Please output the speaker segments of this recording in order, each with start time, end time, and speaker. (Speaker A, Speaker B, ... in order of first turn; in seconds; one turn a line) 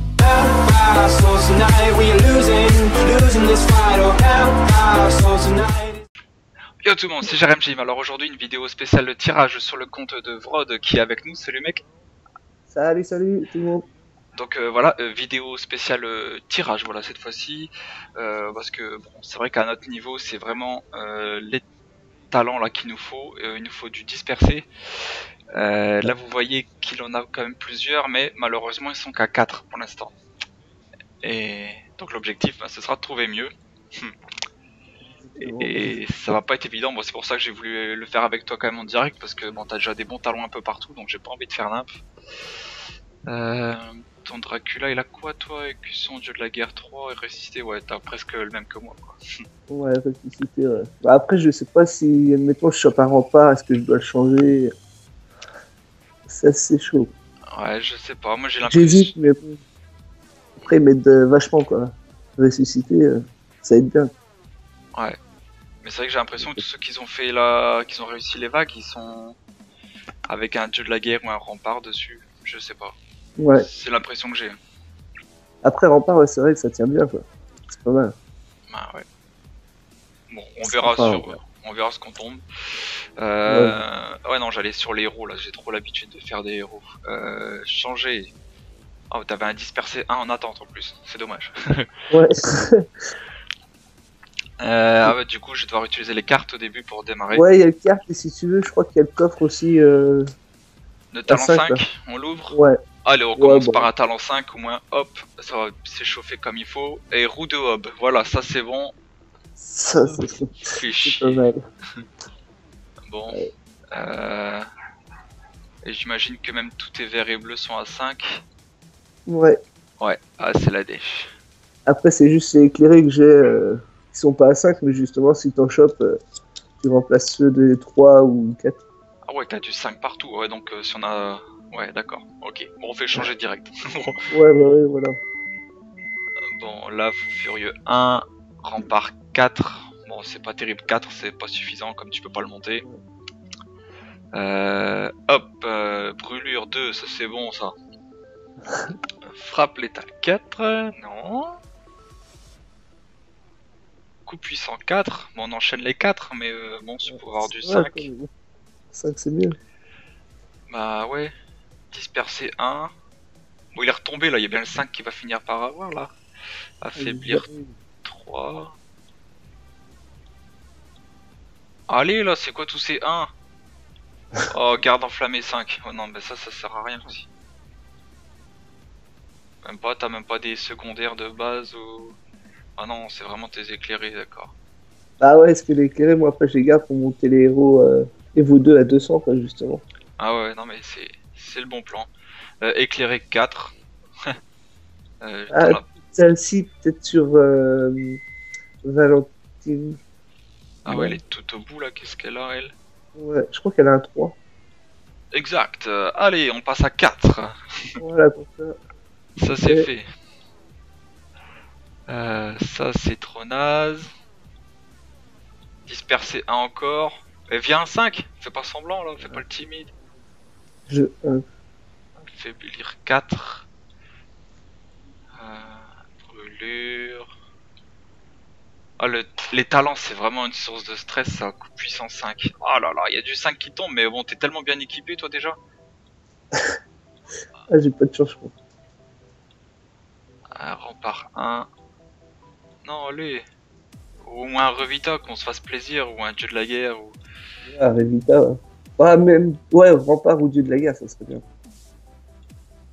Speaker A: 0.2-6.0
Speaker B: 6.8-11.8
Speaker C: 12.7-13.9
Speaker B: 14.3-21.6
Speaker B: 22.3-24.7
Speaker B: 25.6-30.1
Speaker B: 31.2-34.1
Speaker C: 35.2-36.0
Speaker B: 35.4-41.9
Speaker B: 43.3-49.2
Speaker C: 49.7-54.7
Speaker C: 56.3-57.1
Speaker B: 57.5-59.1
Speaker C: 58.6-59.6
Speaker C: 60.6-64.1
Speaker B: 65.8-69.4
Speaker C: 66.4-66.6
Speaker B: 70.3-73.0
Speaker C: 73.4-73.7
Speaker B: 73.6-74.5
Speaker C: 75.6-78.1
Speaker B: 78.7-79.0
Speaker B: 80.3-82.4
Speaker C: 80.7-81.4
Speaker B: 83.2-88.3
Speaker C: 83.5-83.8
Speaker B: 89.1-91.9
Speaker C: 92.1-92.9
Speaker B: 94.6-97.5
Speaker C: 97.3-100.3
Speaker B: 101.1-108.9
Speaker C: 101.3-101.8
Speaker C: 102.5-102.8
Speaker C: 103.4-103.9
Speaker C: 109.6-110.5
Speaker B: 110.1-111.5
Speaker C: 111.0-111.6
Speaker B: 113.1-114.7
Speaker B: 115.8-118.4
Speaker C: 119.3-119.6
Speaker B: 120.0-121.3
Speaker C: 121.9-126.2
Speaker C: 126.8-128.8
Speaker B: 129.3-134.2
Speaker C: 134.3-135.2
Speaker B: 136.6-142.8
Speaker B: 144.3-147.7
Speaker C: 148.7-148.9
Speaker B: 149.3-151.6
Speaker B: 154.2-158.1
Speaker C: 157.1-158.3
Speaker C: 158.9-159.6
Speaker B: 160.7-161.3
Speaker B: 161.9-162.9
Speaker B: 163.7-166.1
Speaker B: 166.8-167.5
Speaker C: 167.0-167.8
Speaker B: 168.0-168.7
Speaker B: 171.9-173.3
Speaker B: 174.5-177.3
Speaker B: 179.6-182.2
Speaker B: 182.8-184.5
Speaker C: 185.2-189.8
Speaker B: 190.2-192.1
Speaker B: 192.6-194.3
Speaker B: 195.2-195.9
Speaker C: 195.5-198.2
Speaker C: 198.8-200.0
Speaker B: 200.8-202.7
Speaker C: 200.9-201.2
Speaker C: 203.2-204.4
Speaker B: 205.3-208.0
Speaker C: 208.0-208.8
Speaker B: 209.4-210.1
Speaker C: 209.6-209.9
Speaker B: 212.1-214.1
Speaker B: 215.9-219.9
Speaker C: 219.2-219.4
Speaker C: 220.9-221.4
Speaker B: 222.2-223.7
Speaker B: 225.4-227.3
Speaker B: 229.0-235.6
Speaker C: 237.7-238.5
Speaker B: 240.6-241.7
Speaker B: 242.8-243.5
Speaker B: 244.2-247.2
Speaker C: 247.7-251.4